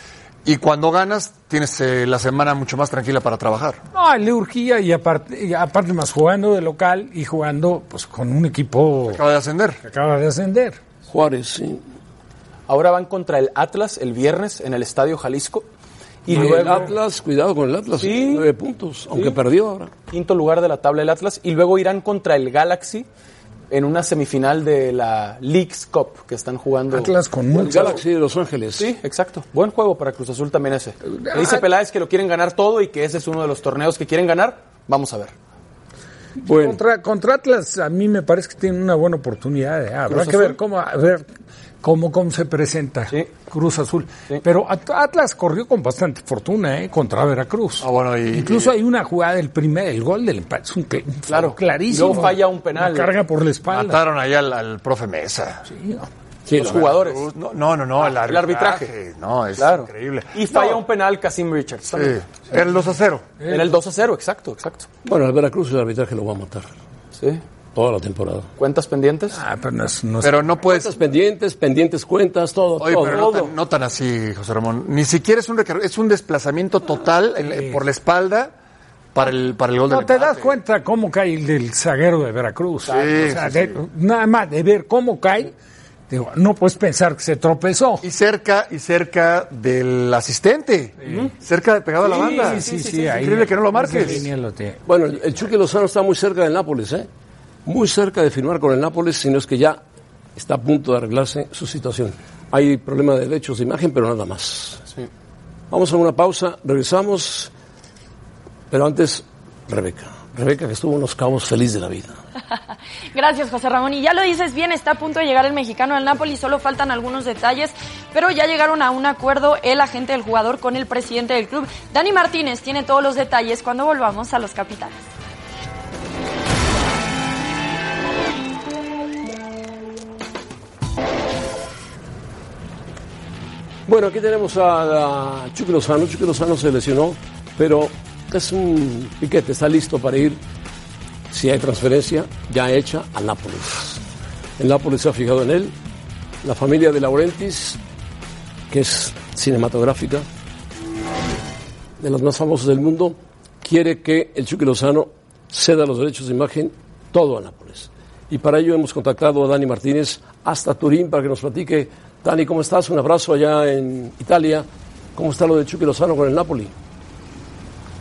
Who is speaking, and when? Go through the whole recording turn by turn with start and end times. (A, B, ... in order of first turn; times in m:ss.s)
0:00.4-0:03.8 A
0:03.9-0:09.2 B
0:09.1-0:09.8 A
0:09.8-0:10.8 B
0:11.1-0:11.8 C
0:12.7-0:15.7 D
0:16.2-0:16.9 D
0:16.3-0:19.9 C
0:18.0-0:18.4 D
0:20.1-0:23.1 D
0:23.7-0:28.0 D
0:26.9-0:28.0 B
0:27.5-0:28.9 C
0:28.8-0:35.3 D
0:31.1-0:31.6 B
0:36.4-0:36.8 C
0:36.5-0:41.2 B
0:40.1-0:40.6 D
0:41.8-0:54.0 B
0:47.8-0:48.7 A
0:51.3-0:53.1 D
0:53.7-0:55.6 A
0:55.7-0:56.1 B
0:56.5-0:56.9 C
0:56.5-0:57.3 D
0:56.6-1:00.7 A
0:58.0-0:58.9 D
0:59.6-1:02.4 D
1:01.9-1:03.3 A
1:03.4-1:04.9 D
1:05.0-1:06.7 C
1:07.2-1:07.4 D
1:07.7-1:08.5 C
1:08.6-1:09.4 D
1:09.3-1:10.5 B
1:10.2-1:10.9 A
1:10.6-1:13.4 C
1:12.8-1:18.5 A
1:13.1-1:13.5 D
1:17.5-1:17.8 B
1:19.1-1:20.6 A
1:19.9-1:25.5 B
1:22.9-1:23.3 D
1:22.9-1:23.8 A
1:26.1-1:28.0 B
1:28.0-1:34.2 A
1:31.0-1:31.3 D
1:32.0-1:33.2 D
1:32.0-1:34.8 B
1:34.8-1:37.1 C
1:37.6-1:39.8 C
1:40.4-1:44.8 C
1:45.7-1:47.5 C
1:48.7-1:52.2 C
1:53.1-2:05.0 E
2:13.8-2:20.4 C
2:21.3-2:24.0 C
2:24.6-2:25.7 C
2:26.4-2:27.8 C
2:28.7-2:30.3 C
2:32.0-2:46.7 C